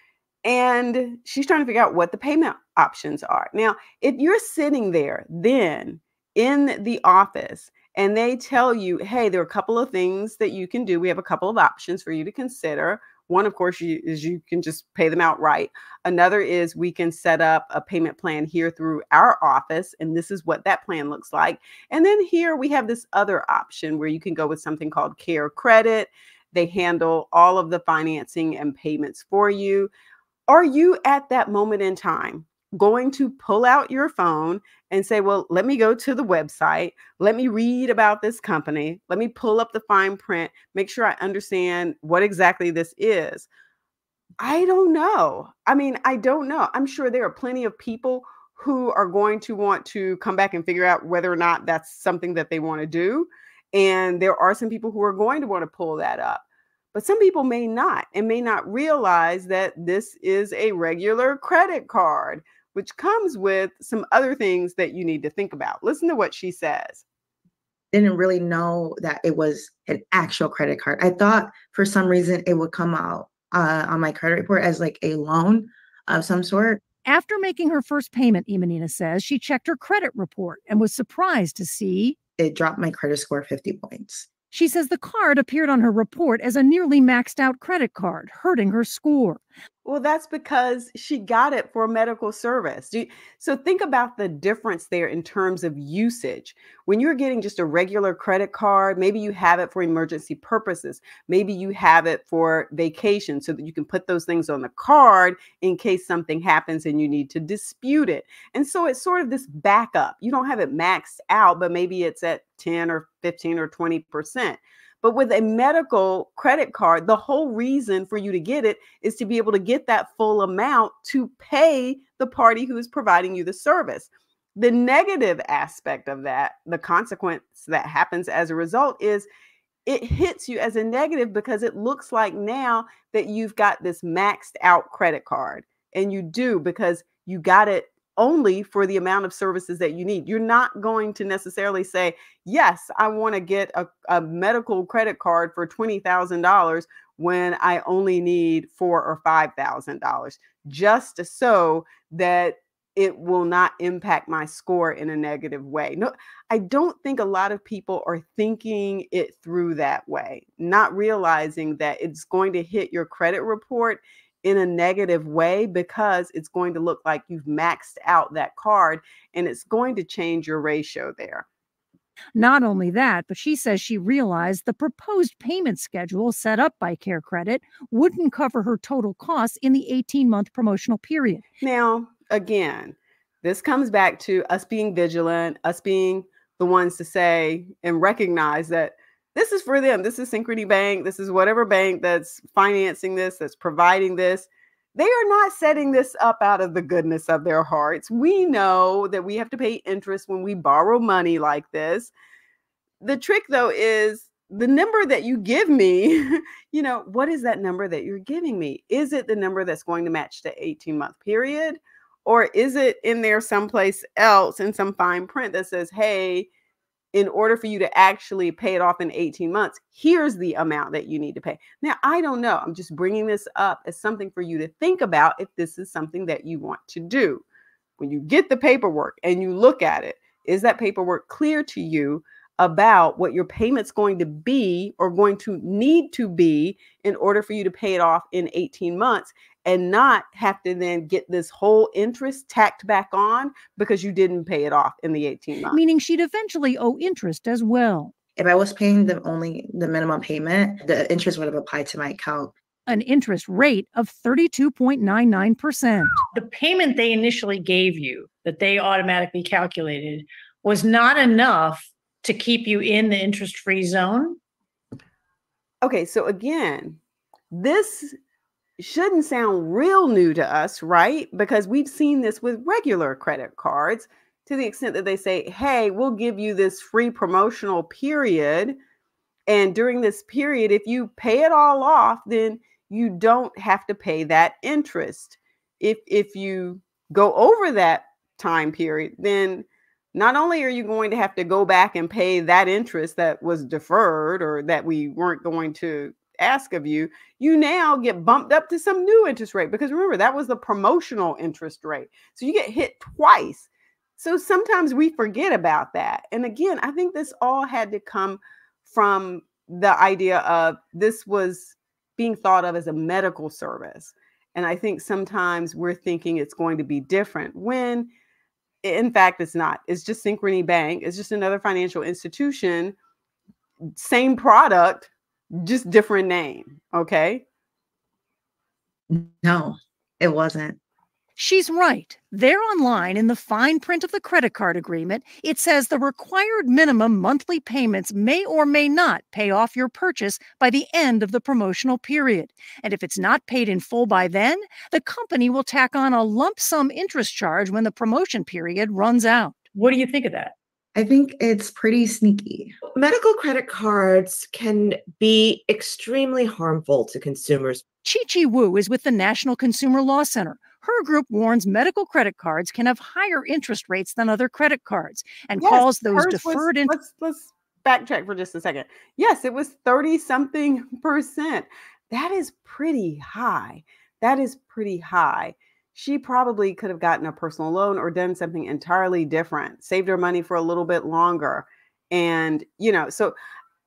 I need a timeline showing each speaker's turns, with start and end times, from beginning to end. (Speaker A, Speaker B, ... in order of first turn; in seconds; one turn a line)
Speaker A: 0.4-29.9
Speaker A: 30.5-43.5
Speaker A: 44.4-67.0
Speaker B: 67.9-76.8
Speaker C: 77.0-82.2
Speaker B: 82.4-84.3
Speaker C: 84.5-89.4
Speaker A: 89.8-129.3
Speaker A: 129.8-171.4
Speaker C: 172.3-181.4
Speaker A: 181.6-202.1
Speaker A: 203.0-216.5
Speaker A: 217.1-227.4
Speaker A: 228.0-245.8
Speaker C: 245.7-248.1
Speaker B: 248.4-252.5
Speaker C: 252.9-256.2
Speaker D: 256.3-264.4
Speaker A: 265.8-267.0
Speaker A: 267.5-268.1
Speaker A: 268.8-278.8
Speaker A: 279.5-318.1
Speaker A: 318.8-322.9
Speaker A: 324.0-327.4
Speaker B: 329.1-330.8
Speaker C: 331.4-349.7
Speaker D: 349.8-350.5
Speaker B: 350.9-352.7
Speaker E: 352.9-357.8
Speaker C: 358.0-366.9
Speaker A: 365.6-383.4